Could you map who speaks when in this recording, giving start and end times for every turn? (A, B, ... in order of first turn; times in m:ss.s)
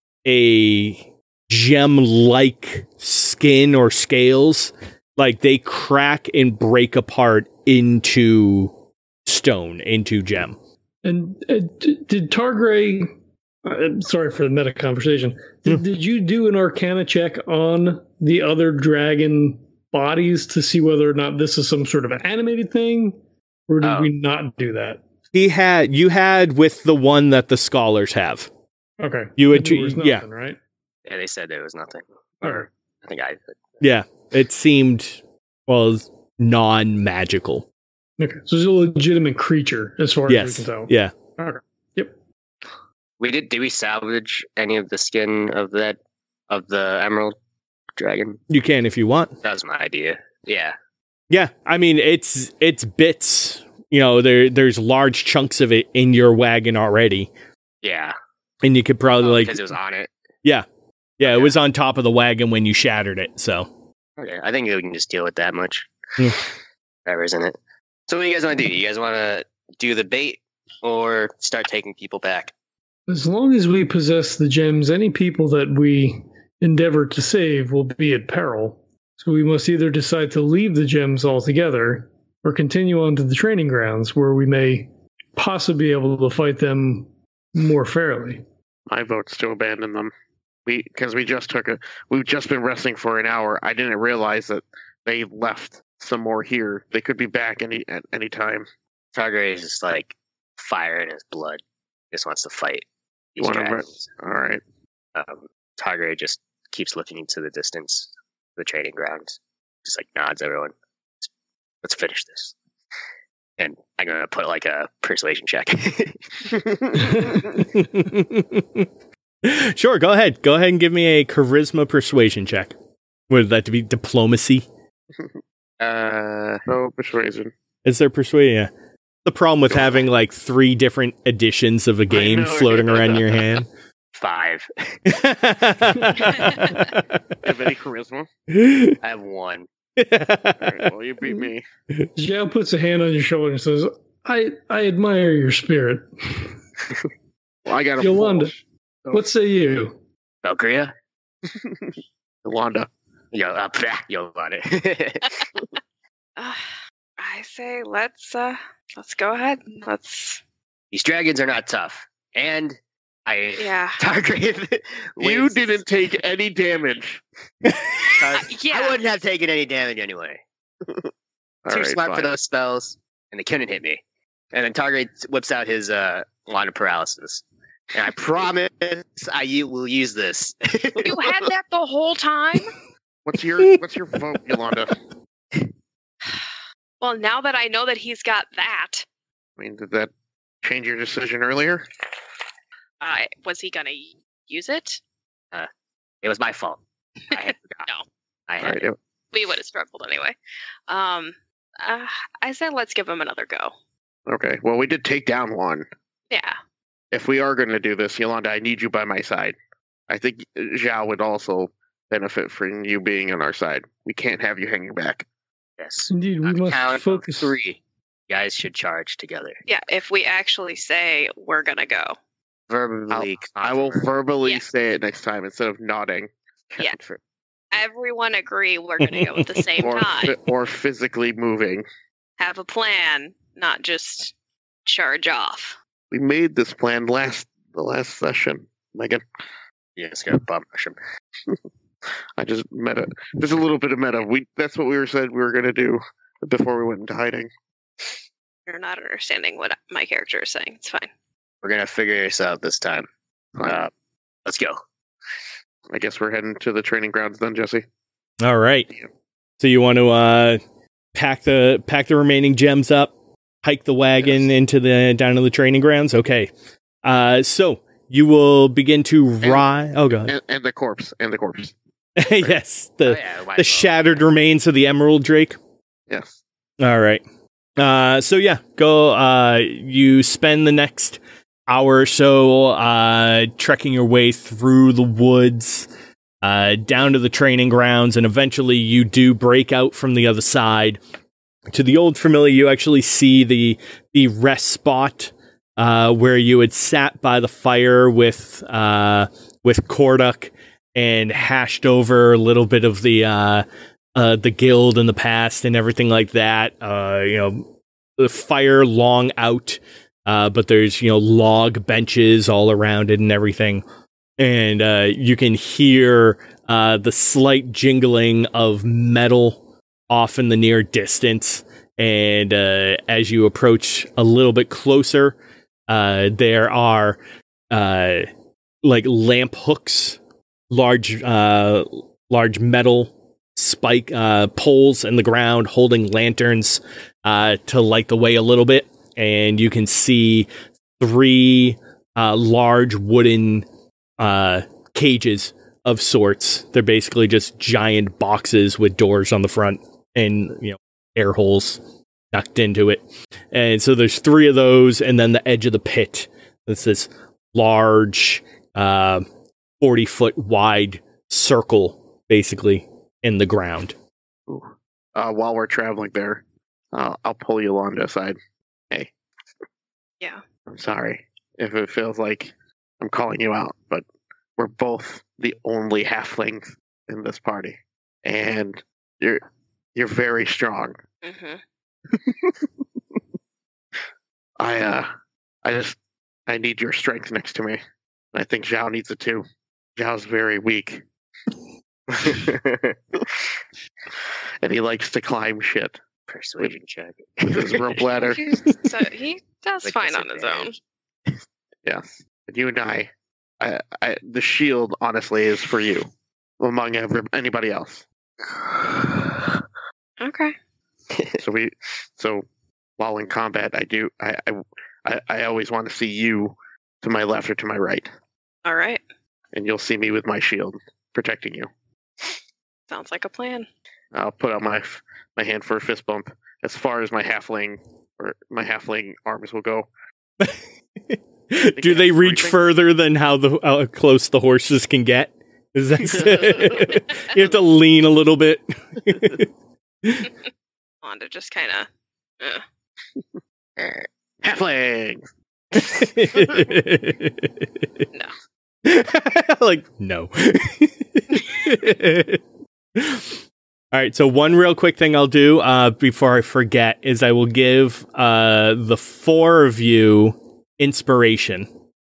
0:00.2-0:08.7 A
0:09.2-0:10.6 A
0:11.0-0:23.2 B
0:23.7-0:25.0 B
0:23.8-0:24.1 C
0:25.3-0:28.5 A
0:29.0-0:30.6 B
0:29.4-0:30.2 A
0:31.1-0:33.6 C
0:33.8-0:37.7 A
0:38.2-0:42.1 B
0:40.3-0:41.1 A
0:43.2-0:46.0 C
0:46.5-0:47.3 C
0:48.0-0:48.4 C
0:48.5-0:49.3 A
0:49.4-0:50.8 C
0:51.3-0:57.3 A
0:57.8-0:58.2 C
0:58.6-0:59.6 A
0:59.2-1:00.1 C
1:01.2-1:03.7 A
1:01.2-1:01.6 C
1:04.2-1:05.9 C
1:07.1-1:07.6 C
1:08.1-1:12.5 C
1:13.1-1:28.4 B
1:28.9-1:30.1 D
1:30.7-1:38.7 D
1:39.1-1:41.6 C
1:42.1-1:44.1 C
1:43.4-1:44.6 D
1:45.1-1:51.3 C
1:51.8-1:52.5 C
1:53.6-1:56.2 C
1:56.7-1:57.1 D
1:57.7-1:58.9 A
1:59.4-2:02.8 A
2:03.3-2:04.6 A
2:05.8-2:06.6 C
2:06.7-2:07.5 D
2:07.8-2:08.7 A
2:09.2-2:13.7 A
2:12.1-2:13.2 D
2:14.1-2:15.0 C
2:15.1-2:17.4 A
2:17.4-2:18.3 D
2:18.5-2:19.0 A
2:19.0-2:19.7 C
2:20.0-2:20.9 A
2:20.6-2:21.6 D
2:22.2-2:26.6 B
2:27.6-2:29.2 D
2:28.0-2:28.5 B
2:29.1-2:30.0 B
2:30.4-2:30.9 C
2:32.4-2:32.9 D
2:33.3-2:35.4 C
2:36.4-2:40.4 E
2:40.9-2:45.8 C
2:43.6-2:44.0 E
2:45.2-2:47.2 D
2:48.2-2:50.4 C
2:48.3-2:49.0 E
2:51.6-2:52.4 D
2:51.7-2:54.0 C
2:54.5-3:01.3 C
3:01.0-3:02.7 E
3:03.2-3:04.9 D
3:07.0-3:09.0 E
3:09.6-3:10.1 D
3:10.6-3:11.9 D
3:13.0-3:15.0 E
3:16.2-3:17.8 C
3:17.3-3:18.0 E
3:18.5-3:18.9 C
3:18.6-3:18.9 D
3:19.3-3:20.4 E
3:20.9-3:23.7 E
3:24.3-3:25.9 D
3:26.3-3:26.6 E
3:27.1-3:29.6 D
3:30.1-3:35.2 D
3:35.8-3:39.6 C
3:36.1-3:37.6 B
3:39.7-3:42.2 E
3:42.7-3:44.1 C
3:43.1-3:46.8 D
3:46.9-3:47.2 C
3:47.7-3:50.4 E
3:49.0-3:49.4 A
3:49.8-3:51.9 D
3:52.4-3:54.3 E
3:54.9-3:55.8 E
3:56.1-3:59.2 D
4:00.0-4:01.0 C
4:02.4-4:07.5 D
4:08.7-4:11.1 E
4:11.6-4:13.1 C
4:13.6-4:13.9 D
4:13.6-4:13.9 C
4:14.4-4:14.8 C
4:15.9-4:17.8 D
4:18.4-4:18.9 A
4:19.6-4:20.6 A
4:21.1-4:23.1 A
4:23.6-4:26.5 A
4:24.2-4:24.5 D
4:27.0-4:30.3 A
4:29.4-4:29.7 D
4:30.2-4:31.8 D
4:32.2-4:35.6 A
4:33.0-4:34.2 C
4:36.1-4:36.4 D
4:36.8-4:37.2 A
4:37.8-4:45.9 A
4:46.4-4:51.0 A
4:51.7-5:07.6 A
5:08.2-5:13.8 A
5:14.4-5:25.4 A
5:25.9-5:27.2 A
5:27.7-5:28.3 A
5:28.8-5:30.2 A
5:30.7-5:40.5 A
5:41.0-5:43.6 A
5:44.2-5:51.8 A
5:52.3-5:59.2 A
5:59.8-6:03.9 A
6:04.5-6:06.4 D
6:06.9-6:08.4 D
6:10.7-6:14.0 D
6:14.6-6:19.4 D
6:20.0-6:21.0 D
6:21.2-6:21.6 E
6:22.1-6:22.5 D
6:24.6-6:25.1 D
6:25.6-6:26.0 D
6:26.5-6:27.8 D
6:28.3-6:29.4 D
6:30.0-6:31.0 D
6:32.1-6:33.0 C
6:34.6-6:36.0 D
6:36.3-6:38.9 C
6:37.4-6:38.6 D
6:38.8-6:40.8 E
6:39.8-6:40.8 C
6:41.9-6:46.1 D
6:46.6-6:48.0 D
6:48.7-6:49.2 C
6:50.2-6:50.5 E
6:51.1-6:51.4 C
6:51.4-6:52.4 D
6:53.0-6:58.1 D
6:58.6-6:59.0 E
6:59.5-7:01.7 D
7:02.9-7:03.7 E
7:04.1-7:09.9 D
7:11.1-7:19.5 A
7:11.7-7:12.6 D
7:16.1-7:17.0 D
7:20.0-7:20.3 A
7:21.0-7:21.9 E
7:23.8-7:24.0 C
7:24.4-7:25.3 D
7:25.8-7:27.7 A
7:28.8-7:32.4 A
7:33.0-7:33.4 A
7:33.9-7:41.7 A